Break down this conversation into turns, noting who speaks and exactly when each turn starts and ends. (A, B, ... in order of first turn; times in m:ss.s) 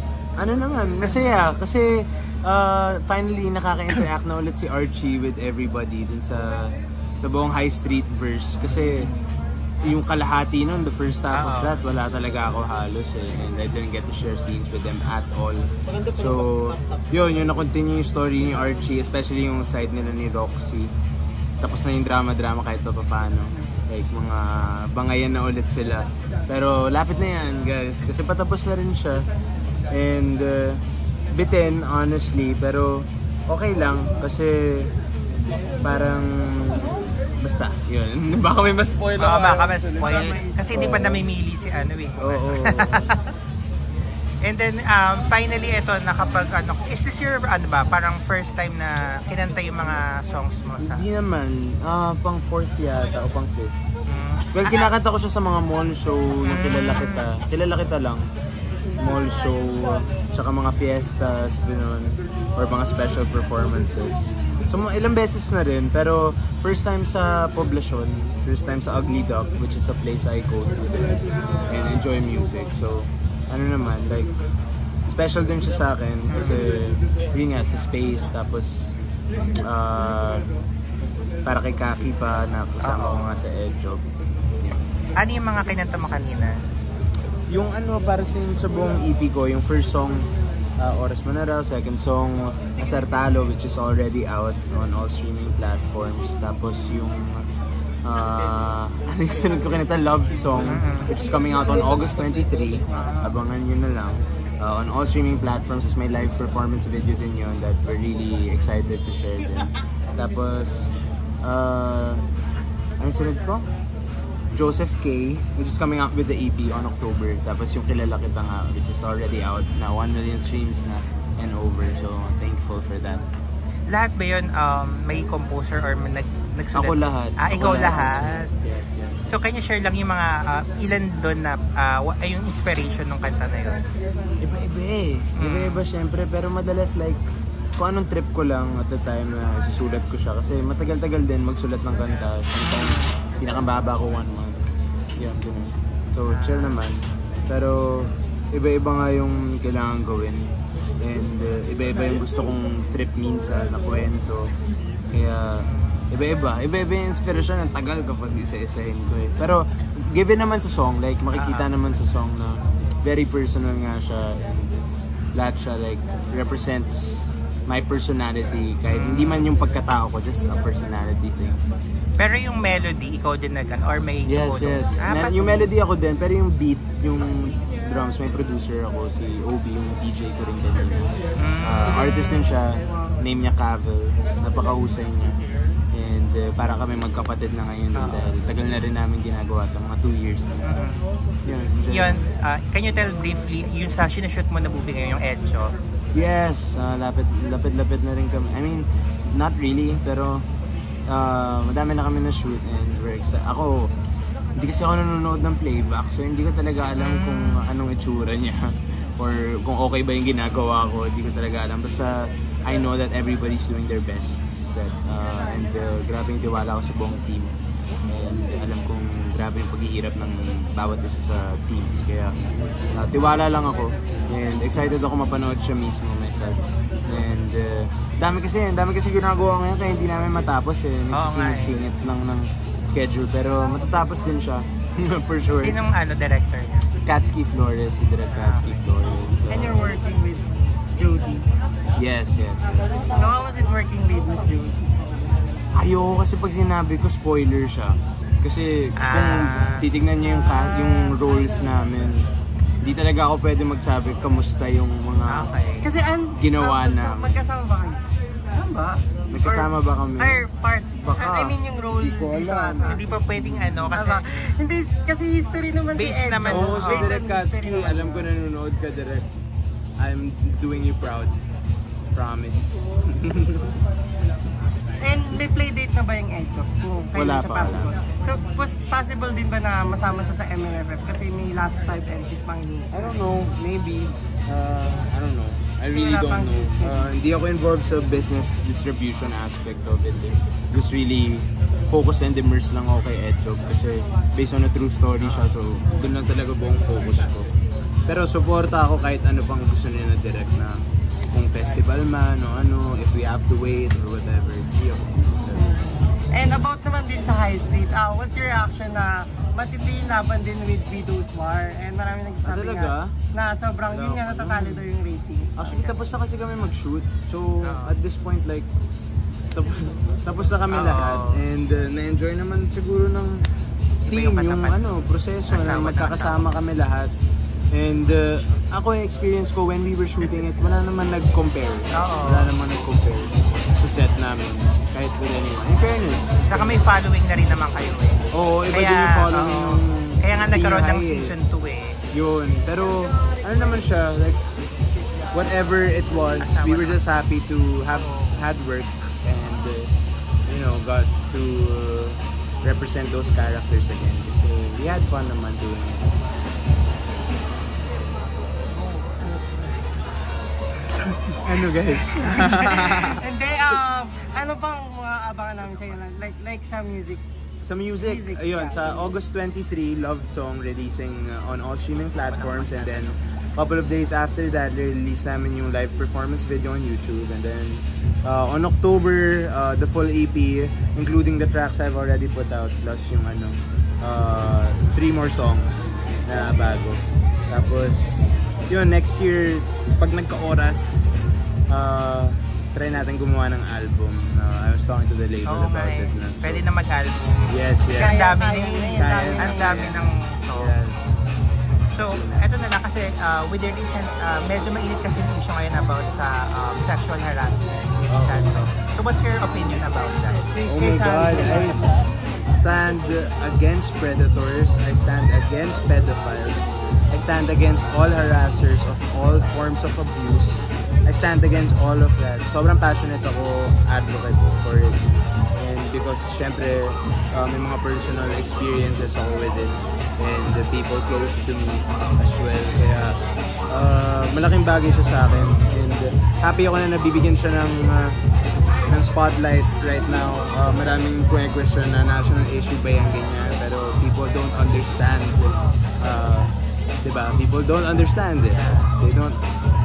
0:00.4-0:06.7 A
0:07.2-0:09.1 A
0:09.8-0:20.9 A
0:11.3-0:11.8 B
0:21.6-0:29.3 A
0:29.9-0:34.9 A
0:35.8-0:39.7 A
0:39.2-0:43.2 B
0:39.9-0:40.9 C
0:40.7-0:41.2 A
0:42.2-0:43.1 A
0:44.4-0:51.1 B
0:50.8-0:53.7 A
0:54.1-0:54.9 B
0:54.6-0:58.2 A
0:56.5-0:57.3 B
0:59.0-1:14.3 A
1:15.1-1:18.9 A
1:16.3-1:16.7 B
1:19.6-1:20.5 A
1:21.5-1:24.0 A
1:22.8-1:23.3 B
1:25.2-1:26.6 B
1:27.5-1:30.3 A
1:30.8-1:37.4 A
1:38.0-1:50.9 A
1:40.6-1:41.1 B
1:42.9-1:43.4 B
1:51.4-1:52.2 A
1:53.0-1:53.7 A
1:54.5-2:03.2 A
2:03.9-2:08.5 B
2:06.7-2:09.3 A
2:09.3-2:13.8 B
2:14.4-2:17.2 A
2:15.4-2:15.9 B
2:17.8-2:24.6 A
2:22.6-2:23.1 B
2:25.2-2:30.5 A
2:26.3-2:26.8 B
2:31.0-2:34.5 A
2:35.1-2:44.7 A
2:35.6-2:36.1 B
2:41.4-2:41.7 B
2:45.4-2:51.6 A
2:48.9-2:49.5 B
2:52.2-2:55.7 B
2:54.2-3:01.1 A
3:01.4-3:02.3 B
3:01.6-3:05.4 A
3:05.9-3:10.7 A
3:08.0-3:08.3 B
3:10.7-3:11.0 B
3:11.4-3:12.2 A
3:11.9-3:15.8 B
3:16.2-3:20.4 A
3:21.1-3:23.9 A
3:24.6-3:37.5 A
3:27.0-3:27.6 B
3:38.1-3:55.8 A
3:51.1-3:51.9 B
3:55.6-3:56.9 B
3:57.0-3:59.9 A
3:58.3-3:58.8 B
3:59.5-4:01.5 C
4:02.0-4:03.2 A
4:03.1-4:05.1 C
4:05.8-4:12.3 A
4:09.0-4:09.8 B
4:12.8-4:15.5 A
4:15.3-4:15.9 B
4:15.8-4:23.2 C
4:16.4-4:17.4 A
4:19.3-4:20.4 A
4:21.0-4:23.9 A
4:22.8-4:24.2 B
4:23.9-4:28.3 C
4:26.0-4:27.2 B
4:26.5-4:29.3 A
4:30.0-4:31.4 A
4:32.1-4:33.8 A
4:35.0-4:43.2 C
4:37.1-4:37.9 A
4:42.9-4:57.5 A
4:45.9-4:47.1 C
4:58.1-5:05.7 A
5:05.5-5:16.0 C
5:12.4-5:13.1 A
5:13.9-5:14.9 A
5:15.6-5:18.7 A
5:17.6-5:18.0 B
5:19.5-5:23.4 A
5:20.7-5:21.3 B
5:24.0-5:24.8 B
5:24.0-5:27.1 A
5:25.5-5:26.5 B
5:27.7-5:36.8 A
5:31.9-5:32.5 B
5:36.4-5:42.0 B
5:38.3-5:41.3 A
5:42.1-5:44.4 A
5:45.3-5:49.9 A
5:46.4-5:47.1 B
5:47.9-5:48.4 B
5:50.5-5:56.1 A
5:59.0-5:59.3 C
6:01.4-6:03.2 A
6:02.1-6:07.2 C
6:07.6-6:31.1 A
6:08.0-6:09.2 C
6:12.2-6:13.2 B
6:31.7-6:36.6 A
6:35.5-6:40.7 B
6:37.5-6:38.2 A
6:38.0-6:40.0 C
6:39.0-6:41.3 A
6:41.9-6:50.4 B
6:42.0-6:42.5 A
6:48.1-6:48.4 A
6:50.5-6:52.1 C
6:50.7-7:13.2 A
7:13.7-7:18.2 A
7:18.8-7:29.4 A
7:28.5-7:28.9 B